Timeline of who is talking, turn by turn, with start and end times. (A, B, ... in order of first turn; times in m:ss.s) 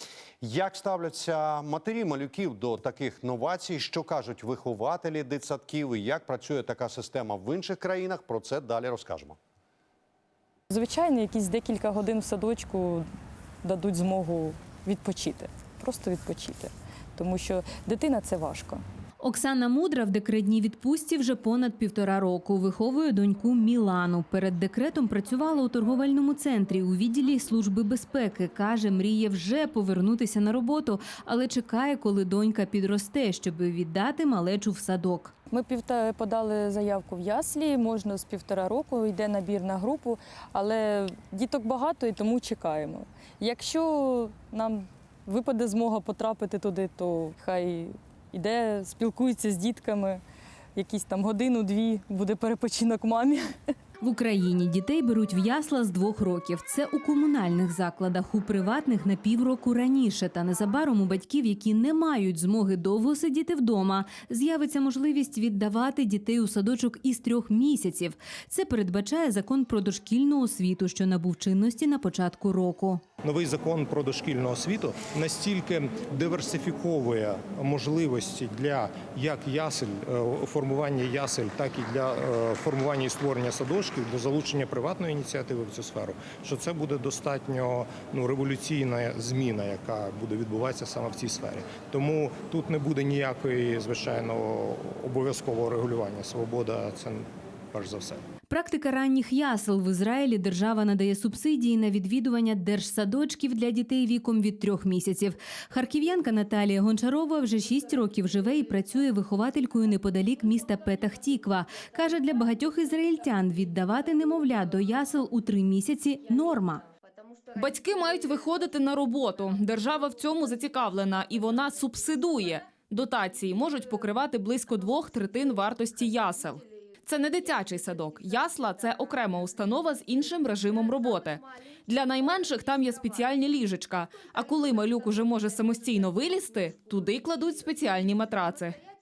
0:00.4-0:09.4 A
0:10.7-0:13.1 B
0:13.6-0:18.8 B
0:19.2-0:35.3 C
0:35.5-0:50.2 B
0:50.8-0:53.5 B
0:54.0-1:13.0 C
1:13.2-1:38.2 D
1:38.5-1:56.8 C
1:57.5-2:18.8 E